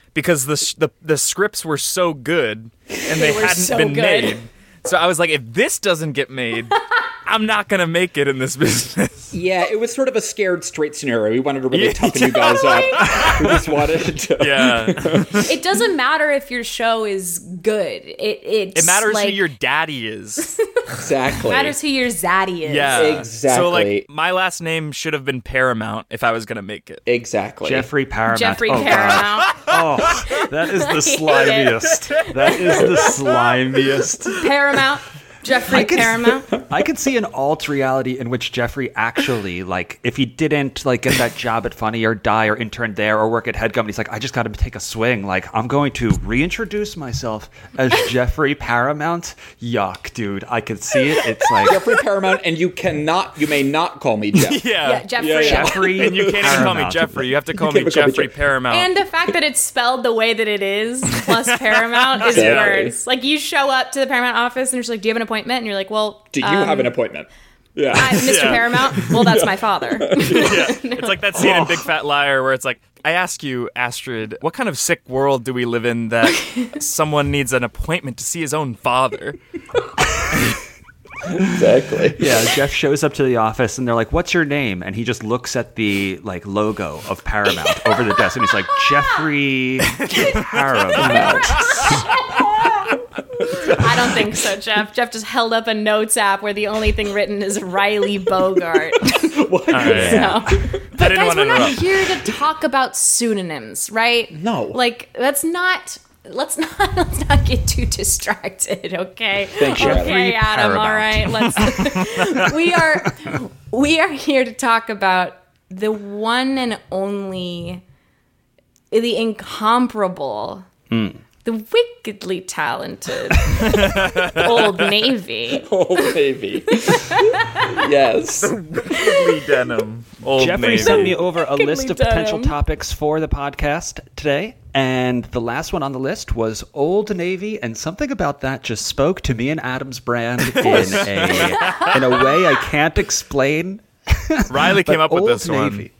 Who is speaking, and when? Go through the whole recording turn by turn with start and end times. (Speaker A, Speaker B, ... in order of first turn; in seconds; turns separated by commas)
Speaker A: 0.1-9.3, Speaker B: 3.0-4.4, Speaker C: 9.3-15.5, Speaker A: 11.7-13.6, Speaker B: 12.6-13.3, Speaker A: 14.4-15.4, Speaker B: 15.4-19.4, Speaker A: 18.8-20.5, Speaker C: 21.0-21.8, Speaker B: 21.4-23.1, Speaker A: 22.7-27.0, Speaker C: 22.9-24.1, Speaker C: 27.1-27.9, Speaker D: 27.6-34.4, Speaker B: 28.3-29.7, Speaker B: 30.7-33.1, Speaker B: 34.4-36.5, Speaker D: 35.7-51.9, Speaker C: 51.6-54.7, Speaker A: 54.4-58.9, Speaker B: 54.8-55.8, Speaker C: 55.2-56.8, Speaker D: 55.3-57.4, Speaker C: 57.5-58.3, Speaker B: 58.7-66.9, Speaker A: 61.7-62.8, Speaker C: 62.2-63.0, Speaker C: 66.3-70.7, Speaker B: 67.9-71.2, Speaker A: 68.2-68.7, Speaker A: 70.3-79.4, Speaker C: 81.3-82.3, Speaker D: 82.0-91.9, Speaker C: 91.0-91.9, Speaker A: 91.6-92.0, Speaker B: 91.6-92.9, Speaker B: 93.5-99.4, Speaker C: 99.0-101.0, Speaker A: 99.7-100.2, Speaker D: 99.8-100.6, Speaker B: 99.9-117.8, Speaker A: 100.9-101.8, Speaker C: 101.6-102.3, Speaker C: 104.3-104.8, Speaker C: 109.5-110.3, Speaker D: 109.8-112.5, Speaker B: 118.9-120.7, Speaker D: 120.9-121.2, Speaker B: 121.4-125.7, Speaker A: 123.7-124.4, Speaker C: 125.6-128.6, Speaker B: 127.0-127.6, Speaker A: 128.4-131.2, Speaker B: 128.9-129.3, Speaker D: 130.4-145.9, Speaker B: 130.7-132.6, Speaker A: 140.5-142.0, Speaker B: 141.6-141.9, Speaker A: 144.5-145.9